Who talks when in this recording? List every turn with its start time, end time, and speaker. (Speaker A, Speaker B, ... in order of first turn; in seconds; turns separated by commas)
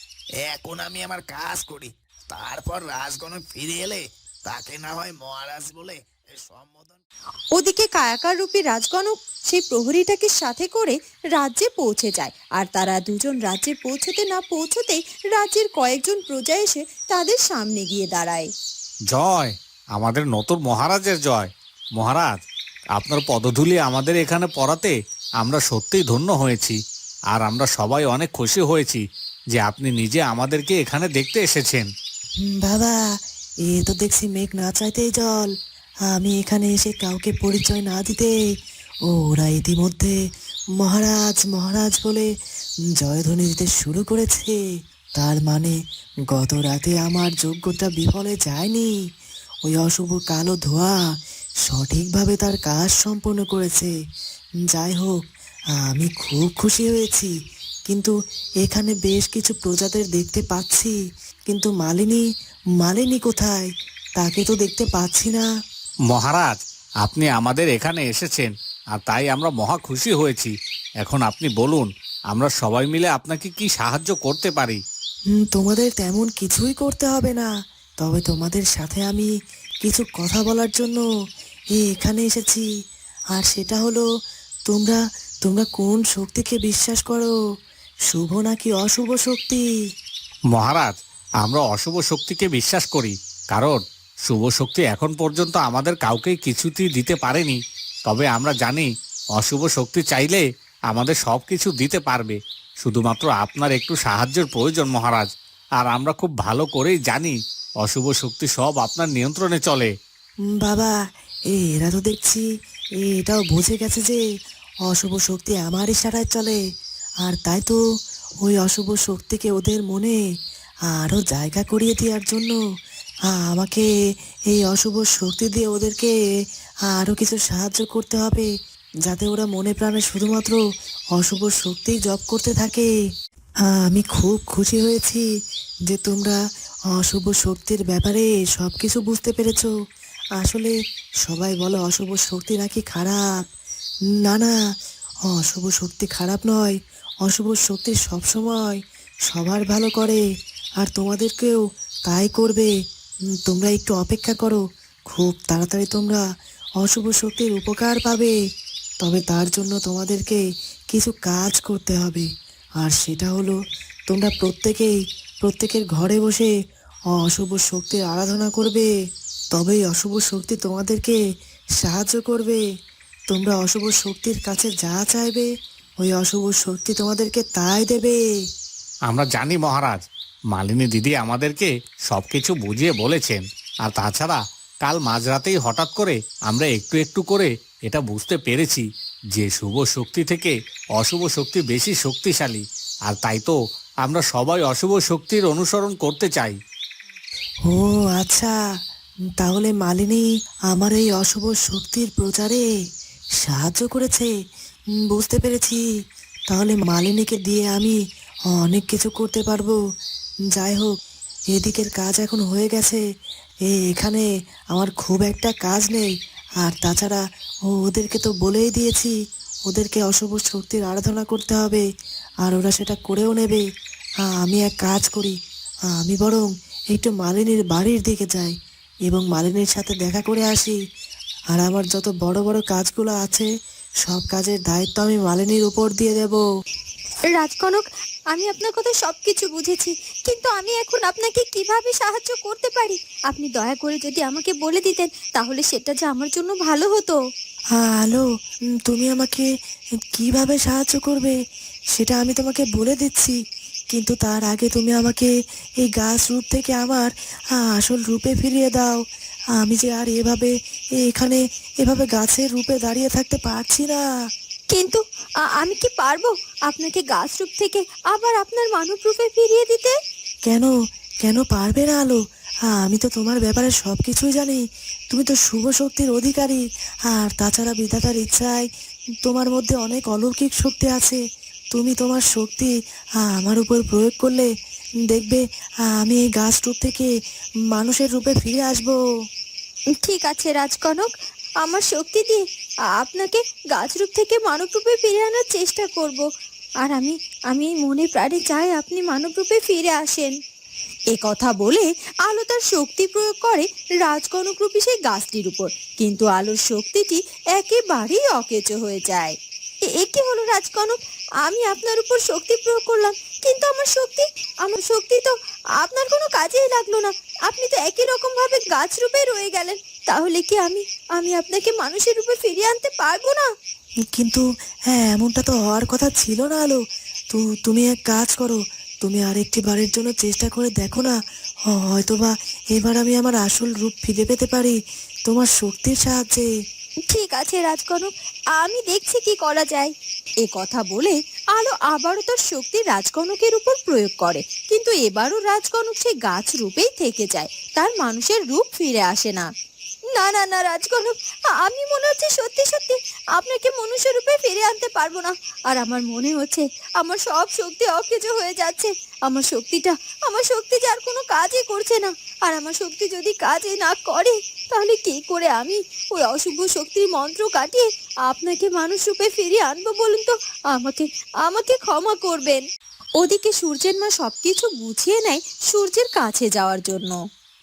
Speaker A: 0.4-7.0, Speaker B: 7.5-18.5, Speaker C: 19.1-22.4, Speaker C: 23.0-26.8, Speaker C: 27.3-29.0, Speaker C: 29.6-31.9, Speaker D: 32.4-33.0, Speaker D: 33.7-35.5, Speaker D: 36.1-38.3, Speaker D: 39.1-40.1, Speaker D: 40.8-42.3, Speaker D: 43.0-44.6, Speaker D: 45.2-45.8, Speaker D: 46.3-48.9, Speaker D: 49.6-51.0, Speaker D: 51.7-53.9, Speaker D: 54.7-55.1, Speaker D: 55.9-57.3, Speaker D: 57.9-58.1, Speaker D: 58.6-61.0, Speaker D: 61.5-62.2, Speaker D: 62.8-65.4, Speaker C: 66.1-74.8, Speaker D: 75.3-77.5, Speaker D: 78.0-79.3, Speaker D: 79.8-81.0, Speaker D: 81.8-82.6, Speaker D: 83.3-84.0, Speaker D: 84.7-87.3, Speaker D: 88.1-89.6, Speaker C: 90.5-98.9, Speaker C: 99.4-105.3, Speaker C: 105.8-109.9, Speaker D: 110.6-110.9, Speaker D: 111.5-112.4, Speaker D: 113.0-114.2, Speaker D: 114.9-116.6, Speaker D: 117.2-117.8, Speaker D: 118.4-120.2, Speaker D: 120.9-122.6, Speaker D: 123.3-123.8, Speaker D: 124.5-126.1, Speaker D: 126.9-128.5, Speaker D: 129.1-130.6, Speaker D: 131.2-132.9, Speaker D: 133.8-135.2, Speaker D: 135.9-136.4, Speaker D: 136.9-139.7, Speaker D: 140.4-140.7, Speaker D: 141.2-143.4, Speaker D: 144.2-144.5, Speaker D: 145.3-150.2, Speaker D: 150.8-152.7, Speaker D: 153.4-156.2, Speaker D: 156.8-158.3, Speaker D: 159.0-162.3, Speaker D: 162.8-163.6, Speaker D: 164.1-166.5, Speaker D: 167.2-168.9, Speaker D: 169.5-171.2, Speaker D: 171.8-172.6, Speaker D: 173.3-175.5, Speaker D: 176.0-178.2, Speaker C: 179.1-180.0, Speaker C: 180.5-188.8, Speaker C: 189.3-196.6, Speaker D: 197.7-198.5, Speaker D: 199.4-202.6, Speaker D: 203.4-204.3, Speaker D: 205.1-205.8, Speaker D: 206.5-207.9, Speaker D: 208.6-209.8, Speaker D: 210.5-210.9, Speaker D: 211.5-213.0, Speaker D: 213.7-216.1, Speaker D: 216.6-219.1, Speaker D: 219.7-221.8, Speaker D: 222.4-223.6, Speaker D: 224.3-225.3, Speaker D: 225.9-228.5, Speaker D: 229.1-230.8, Speaker D: 231.5-233.5, Speaker D: 234.0-236.4, Speaker B: 237.3-247.2, Speaker D: 247.8-248.2, Speaker D: 248.8-249.5, Speaker D: 250.2-251.4, Speaker D: 251.9-253.4, Speaker D: 253.9-255.3, Speaker D: 255.8-259.0, Speaker D: 259.6-264.0, Speaker B: 264.7-265.0, Speaker B: 265.6-269.9, Speaker D: 270.4-270.7, Speaker D: 271.2-278.7, Speaker D: 279.2-281.2, Speaker D: 281.7-282.7, Speaker D: 283.2-284.5, Speaker D: 285.1-285.4, Speaker D: 285.9-287.1, Speaker D: 287.7-289.0, Speaker B: 290.0-291.1, Speaker B: 291.6-292.4, Speaker B: 293.0-296.2, Speaker B: 296.8-300.3, Speaker B: 301.1-309.3, Speaker B: 309.9-323.5, Speaker D: 324.1-326.8, Speaker D: 327.3-331.1, Speaker D: 331.7-334.8, Speaker D: 335.3-336.5, Speaker B: 337.1-339.9, Speaker B: 340.4-349.5, Speaker B: 350.1-372.6, Speaker B: 373.2-377.2